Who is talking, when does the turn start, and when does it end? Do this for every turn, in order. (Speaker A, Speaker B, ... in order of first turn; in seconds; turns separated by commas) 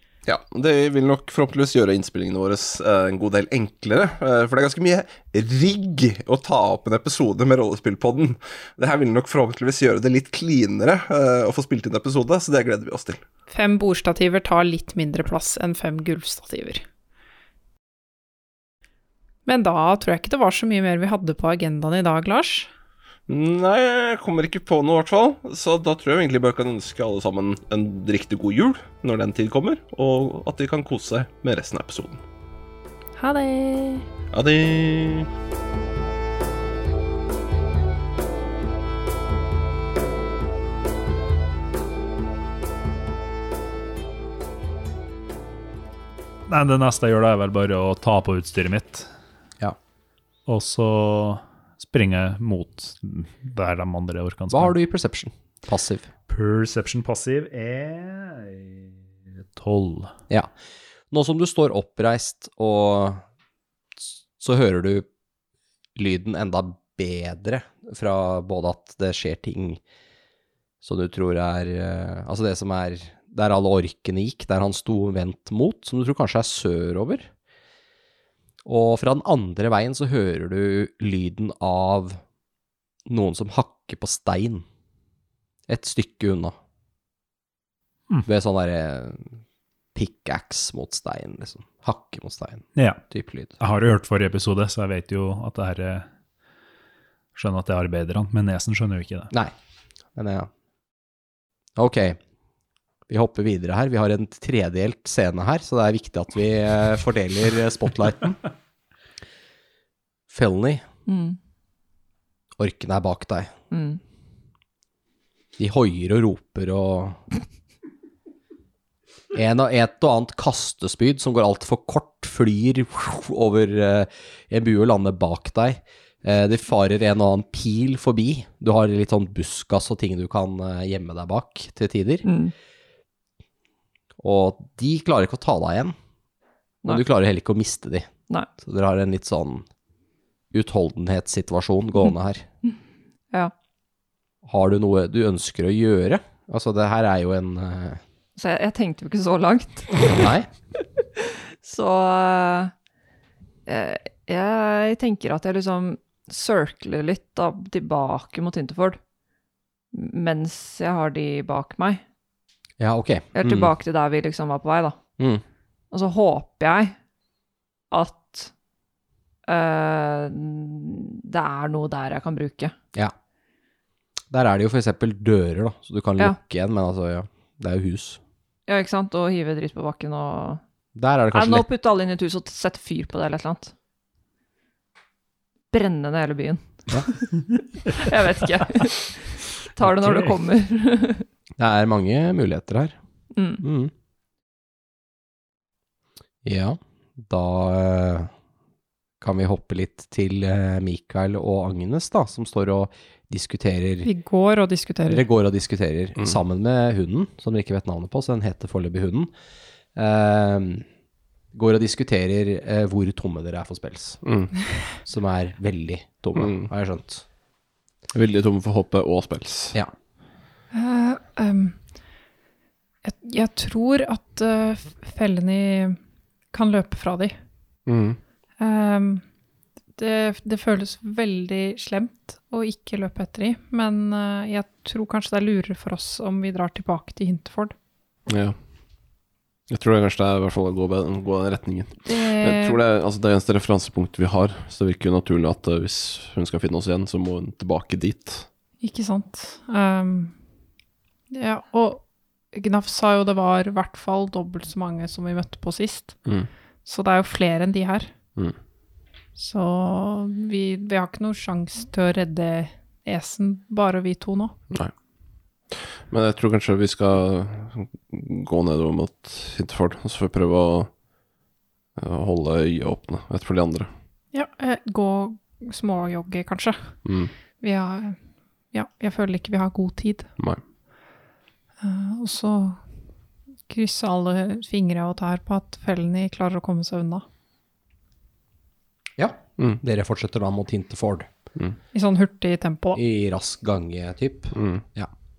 Speaker A: 0.2-13.2, Speaker B: 13.5-16.8, Speaker B: 19.5-22.7, Speaker A: 23.3-32.2, Speaker B: 33.2-34.1, Speaker A: 34.3-35.3, Speaker C: 46.5-49.1, Speaker C: 50.5-54.7, Speaker D: 54.5-56.1, Speaker C: 56.3-58.9, Speaker C: 59.5-60.1, Speaker D: 61.1-63.2, Speaker D: 64.4-65.1, Speaker D: 66.0-69.8, Speaker D: 70.8-77.3, Speaker D: 78.7-82.2, Speaker D: 83.1-84.7, Speaker D: 85.7-86.5, Speaker D: 88.2-89.4, Speaker D: 90.0-93.6, Speaker C: 92.8-93.0, Speaker C: 93.6-96.1, Speaker C: 97.3-99.3, Speaker D: 100.2-100.5, Speaker D: 101.8-102.2, Speaker D: 103.1-108.4, Speaker D: 110.3-110.8, Speaker E: 111.1-111.4, Speaker D: 112.6-113.5, Speaker E: 113.7-114.0, Speaker D: 115.6-117.2, Speaker D: 119.3-132.3, Speaker E: 132.2-132.5, Speaker D: 134.2-135.9, Speaker D: 136.9-139.7, Speaker D: 140.5-142.4, Speaker D: 144.4-148.0, Speaker E: 148.4-150.2, Speaker D: 150.1-150.5, Speaker E: 151.2-152.7, Speaker E: 153.7-159.0, Speaker E: 159.9-162.0, Speaker D: 162.8-163.7, Speaker E: 163.3-165.0, Speaker E: 165.9-166.9, Speaker E: 167.9-168.5, Speaker E: 169.5-172.8, Speaker D: 174.3-178.2, Speaker E: 178.7-180.6, Speaker D: 180.9-181.7, Speaker E: 181.3-183.7, Speaker E: 185.7-191.3, Speaker D: 191.6-192.9, Speaker E: 193.3-193.6, Speaker D: 193.6-193.9, Speaker D: 196.4-198.3, Speaker D: 199.2-204.1, Speaker B: 204.0-205.2, Speaker D: 205.1-209.3, Speaker D: 209.9-210.8, Speaker D: 211.5-214.2, Speaker A: 214.2-214.5, Speaker D: 215.1-217.2, Speaker A: 216.4-216.7, Speaker A: 218.1-219.8, Speaker B: 220.7-221.8, Speaker B: 223.0-226.0, Speaker B: 226.5-227.3, Speaker A: 227.9-228.2, Speaker B: 228.6-229.2, Speaker B: 230.0-237.8, Speaker A: 238.3-238.6, Speaker A: 239.7-248.5, Speaker B: 242.1-242.8, Speaker B: 248.8-250.3, Speaker B: 251.3-256.2, Speaker B: 256.9-258.1, Speaker B: 259.4-264.5, Speaker A: 265.7-270.9, Speaker A: 272.0-273.9, Speaker B: 274.3-277.0, Speaker A: 277.1-277.3, Speaker B: 277.6-278.2, Speaker B: 278.7-280.3, Speaker B: 281.8-282.8, Speaker B: 283.7-287.2, Speaker D: 289.2-291.3, Speaker B: 291.9-293.0, Speaker D: 292.9-295.1, Speaker A: 294.6-294.8